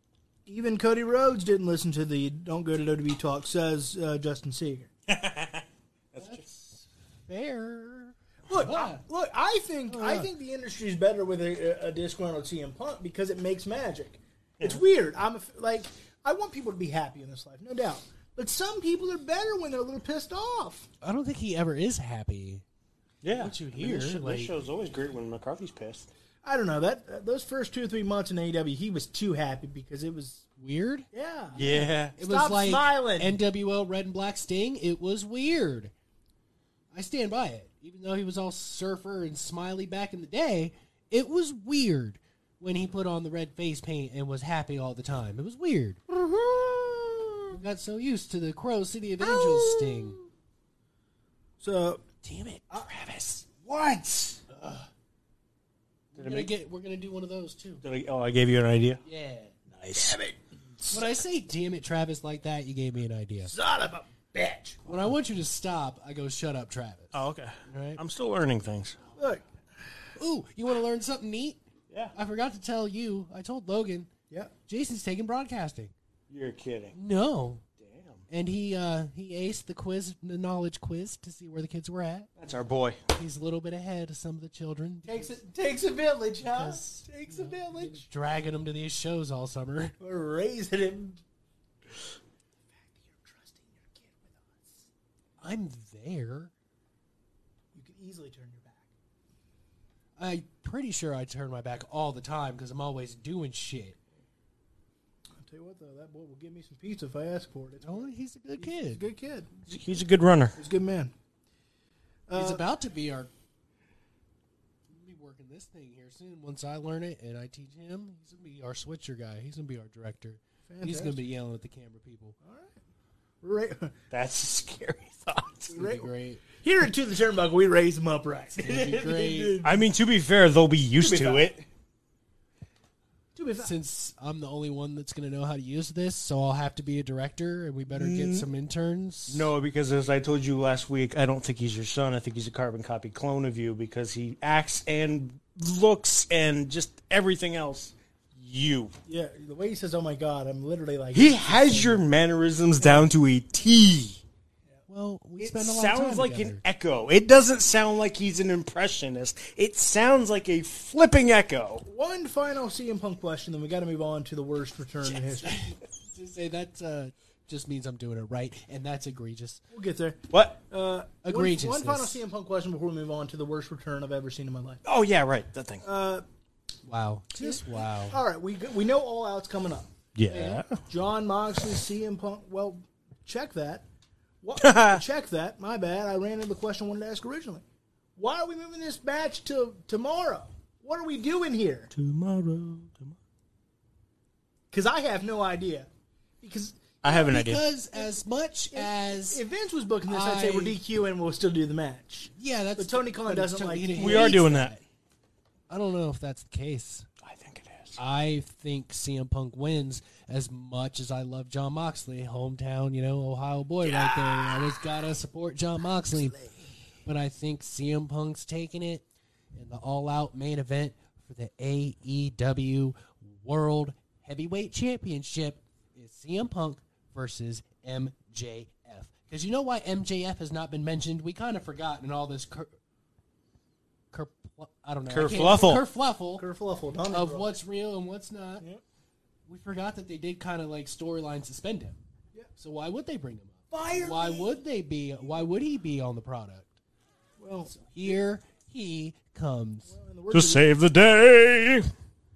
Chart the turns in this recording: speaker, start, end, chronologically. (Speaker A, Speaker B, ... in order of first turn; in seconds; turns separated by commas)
Speaker A: 0.5-4.9, Speaker B: 5.1-6.5, Speaker C: 6.2-9.0, Speaker A: 8.5-20.9, Speaker C: 9.9-10.3, Speaker C: 21.0-22.6, Speaker B: 23.2-26.1, Speaker C: 23.3-24.6, Speaker A: 26.4-30.4, Speaker C: 30.6-35.9, Speaker A: 31.1-33.4, Speaker B: 31.5-32.1, Speaker C: 36.9-46.0, Speaker A: 46.1-47.5, Speaker C: 47.5-50.2, Speaker A: 49.2-50.3, Speaker A: 51.6-52.0, Speaker C: 52.2-53.4, Speaker A: 53.4-54.4, Speaker C: 56.1-57.8, Speaker B: 56.2-56.5, Speaker B: 57.8-59.0, Speaker C: 59.0-59.5, Speaker B: 59.7-60.2, Speaker A: 59.9-61.1, Speaker C: 60.9-63.5, Speaker A: 63.5-65.0, Speaker C: 64.8-68.0, Speaker B: 67.1-69.0, Speaker A: 69.2-69.4, Speaker C: 70.2-71.6, Speaker C: 72.1-74.1, Speaker C: 74.6-75.9, Speaker B: 76.3-76.9, Speaker C: 76.9-77.6, Speaker B: 77.8-78.2, Speaker C: 78.3-82.3, Speaker B: 82.4-83.0, Speaker C: 83.1-85.3, Speaker A: 85.0-88.0, Speaker C: 86.5-90.0, Speaker A: 90.0-91.2, Speaker A: 93.0-94.9, Speaker C: 95.4-96.5, Speaker A: 97.7-98.8, Speaker C: 100.2-104.0, Speaker A: 105.4-109.5, Speaker C: 107.8-109.0, Speaker B: 109.7-110.6, Speaker A: 110.5-111.1, Speaker A: 112.3-112.6, Speaker C: 112.3-113.3, Speaker C: 114.9-122.3, Speaker A: 120.7-121.2, Speaker A: 122.4-122.8, Speaker A: 123.4-124.0, Speaker B: 124.1-125.7, Speaker C: 125.7-126.4, Speaker A: 125.7-129.8, Speaker C: 128.5-129.6, Speaker B: 129.6-131.6, Speaker A: 131.0-131.5, Speaker A: 133.3-133.7, Speaker C: 133.6-139.5, Speaker B: 137.9-138.5, Speaker B: 139.3-148.9, Speaker A: 149.1-152.0, Speaker B: 151.1-154.2, Speaker C: 154.9-156.6, Speaker B: 155.4-161.8, Speaker A: 161.8-165.7, Speaker C: 165.1-169.6, Speaker A: 169.7-174.8, Speaker B: 170.3-170.6, Speaker C: 171.2-172.2, Speaker B: 174.8-175.8, Speaker A: 175.8-176.2, Speaker C: 176.8-178.2, Speaker A: 177.3-183.8, Speaker B: 180.2-180.8, Speaker A: 184.4-187.6, Speaker B: 184.6-185.0, Speaker A: 188.2-191.9, Speaker B: 191.9-193.2, Speaker A: 194.7-195.9, Speaker A: 196.4-197.3, Speaker B: 197.0-197.6, Speaker C: 197.1-199.4, Speaker A: 198.7-204.4, Speaker C: 200.1-200.8, Speaker C: 202.4-204.8, Speaker B: 203.9-204.7, Speaker C: 205.7-207.1, Speaker B: 207.2-208.0, Speaker C: 207.9-216.4, Speaker B: 213.8-214.6, Speaker C: 217.0-232.7, Speaker C: 234.1-236.5, Speaker B: 235.1-235.8, Speaker A: 236.4-237.5, Speaker C: 237.1-238.6, Speaker C: 239.5-242.0, Speaker C: 242.6-246.8, Speaker A: 243.7-244.5, Speaker A: 247.4-248.1, Speaker C: 247.7-249.9, Speaker A: 249.9-250.7, Speaker B: 250.3-251.9